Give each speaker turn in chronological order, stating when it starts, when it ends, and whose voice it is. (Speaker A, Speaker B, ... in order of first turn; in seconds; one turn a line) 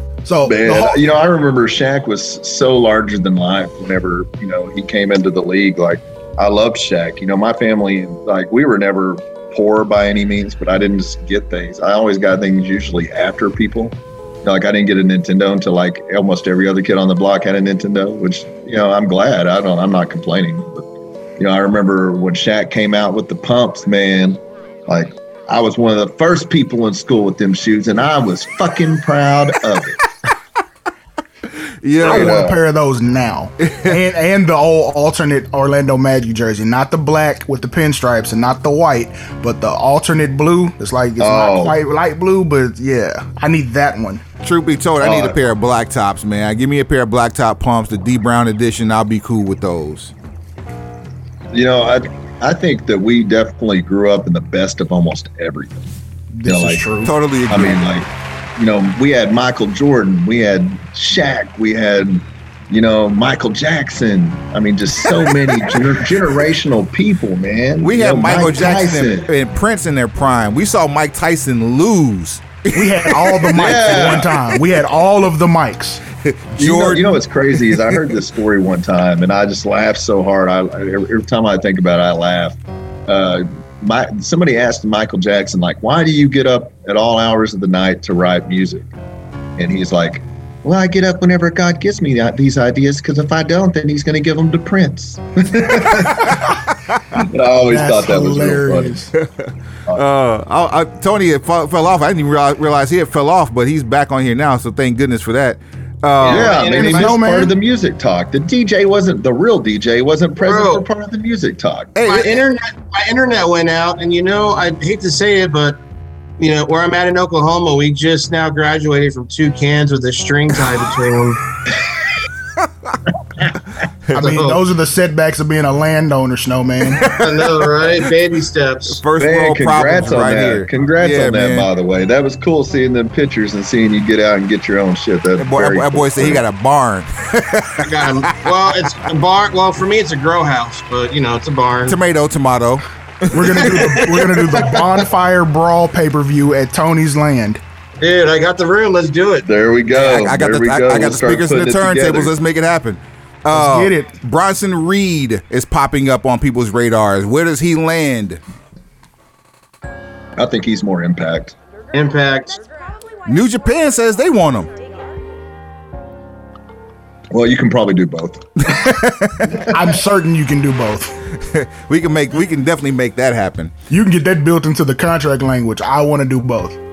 Speaker A: 0.2-1.0
Speaker B: 0.4-30.0
Speaker C: 31.8-32.4
Speaker B: 32.0-32.6
Speaker A: 32.0-44.2
Speaker C: 33.6-34.0
Speaker B: 41.2-41.8
Speaker C: 44.4-50.1
Speaker B: 45.0-45.4
Speaker B: 51.5-55.9
Speaker A: 56.3-57.1
Speaker B: 56.5-56.9
Speaker C: 57.0-57.8
Speaker B: 57.5-69.3
Speaker C: 65.3-65.8
Speaker C: 67.8-74.4
Speaker A: 72.7-76.0
Speaker B: 73.5-74.3
Speaker C: 76.2-77.1
Speaker B: 76.6-88.9
Speaker C: 77.7-78.0
Speaker B: 89.6-96.5
Speaker B: 97.1-99.0
Speaker A: 97.7-99.1
Speaker C: 99.2-106.6
Speaker D: 106.2-107.1
Speaker B: 106.2-111.9
Speaker A: 106.6-107.5
Speaker D: 110.4-110.8
Speaker C: 112.0-112.4
Speaker D: 112.0-115.8
Speaker D: 116.4-121.4
Speaker A: 124.1-127.1
Speaker D: 124.2-124.6
Speaker C: 127.0-127.5
Speaker D: 127.1-129.0
Speaker C: 128.9-131.7
Speaker B: 129.2-136.4
Speaker C: 135.4-138.3
Speaker D: 137.8-141.9
Speaker C: 141.8-144.2
Speaker A: 143.3-147.6
Speaker D: 148.0-149.5
Speaker B: 149.4-152.3
Speaker C: 149.9-158.4
Speaker A: 153.5-154.1
Speaker B: 160.3-161.5
Speaker D: 161.9-162.6
Speaker C: 163.2-164.7
Speaker B: 167.3-170.0
Speaker C: 168.6-169.6
Speaker A: 169.7-171.2
Speaker C: 171.3-173.7
Speaker A: 173.9-176.8